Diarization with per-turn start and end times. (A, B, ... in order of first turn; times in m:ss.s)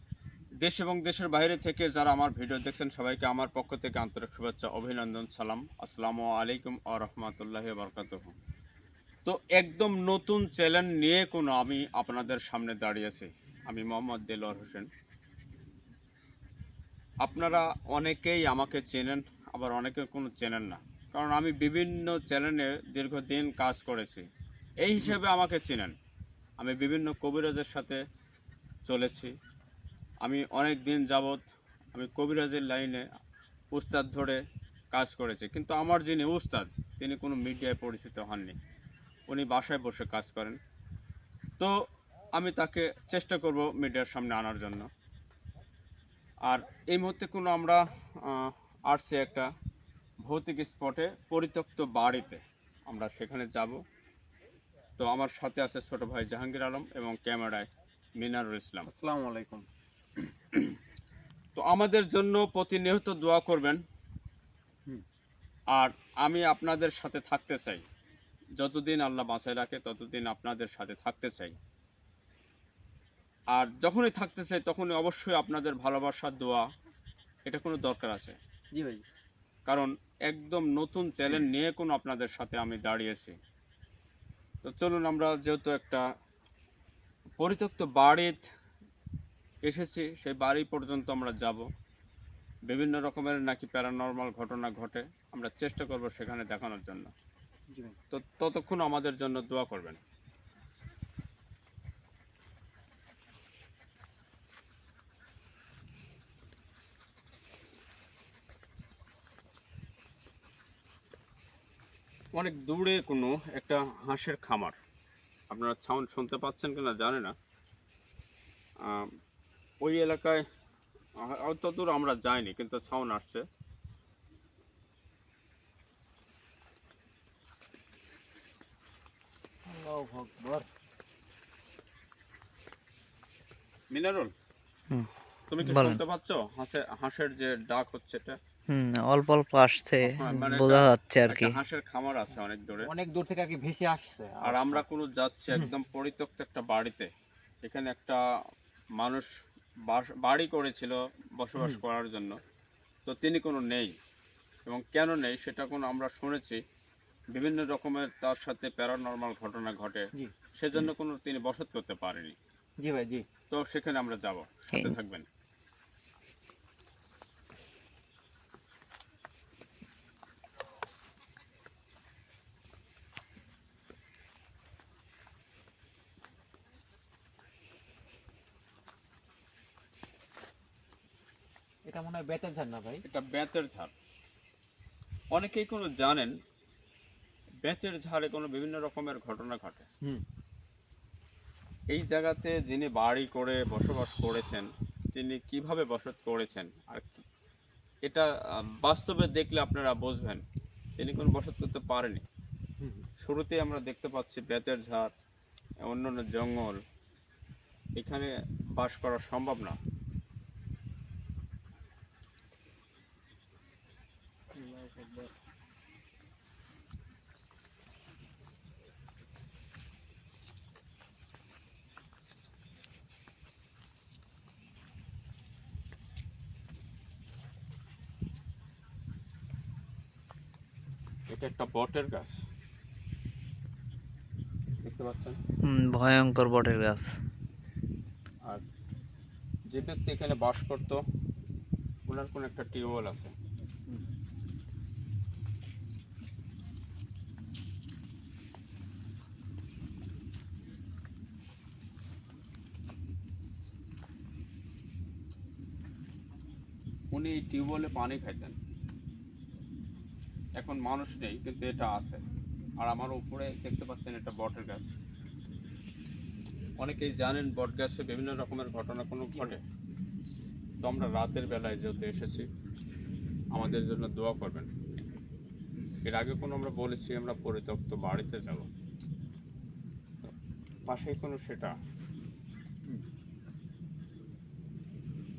0:00.6-0:08.4 A
0:09.2-0:14.9 A
0:17.2-0:24.3 A
0:24.8-0:25.9 A
0:26.6-0:28.0 A
0:28.9-0:29.3 A
0:30.2-0:31.4 A
0:31.9-0:33.0 A
0:33.7-0:34.4 A
0:34.9-0:38.6 A
0:39.3-0:40.6 A
0:42.4-0:44.9 A
0:46.5-0:49.5 A
0:50.2-0:53.8 A
0:55.0-0:57.7 A
0:58.2-0:58.9 A
0:58.8-0:59.6 B
1:01.6-1:03.8 A
1:05.7-1:07.8 A
1:08.6-1:11.6 A
1:13.5-1:16.7 A
1:17.5-1:18.4 A
1:18.7-1:19.0 B
1:19.7-1:23.4 A
1:24.6-1:26.0 A
1:27.4-1:28.4 A
1:29.6-1:31.7 A
1:32.7-1:37.1 A
1:37.7-1:38.0 B
1:38.1-1:40.0 A
1:52.3-1:54.8 A
1:55.5-1:57.3 A
1:58.8-1:59.1 A
1:59.8-2:00.4 A
2:01.2-2:03.4 A
2:09.6-2:10.6 B
2:13.9-2:14.3 A
2:15.5-2:18.4 A
2:15.6-2:16.0 C
2:18.7-2:21.6 C
2:20.0-2:22.9 A
2:22.8-2:24.8 B
2:24.4-2:27.1 A
2:27.6-2:28.2 A
2:29.0-2:29.3 A
2:29.9-2:32.4 A
2:31.6-2:31.8 B
2:33.0-2:33.9 A
2:34.6-2:36.6 A
2:37.3-2:42.4 A
2:42.8-2:43.2 B
2:43.5-2:45.3 A
3:01.9-3:03.0 B
3:03.0-3:03.9 A
3:05.3-3:06.3 A
3:07.6-3:09.9 A
3:11.9-3:17.2 A
3:18.0-3:20.4 A
3:21.0-3:22.2 A
3:22.8-3:23.1 B
3:23.2-3:25.1 A
3:25.8-3:26.8 A
3:28.0-3:29.8 A
3:34.5-3:35.3 B
3:51.3-3:52.4 A
3:54.8-3:55.4 A
3:55.6-3:57.1 C
3:59.7-4:01.0 A
4:02.1-4:03.3 A
4:17.1-4:18.6 A
4:20.6-4:22.2 A
4:22.8-4:24.9 A
4:26.8-4:29.6 A
4:30.8-4:32.5 A
4:33.5-4:34.7 A
4:36.0-4:38.7 A
4:40.9-4:41.8 A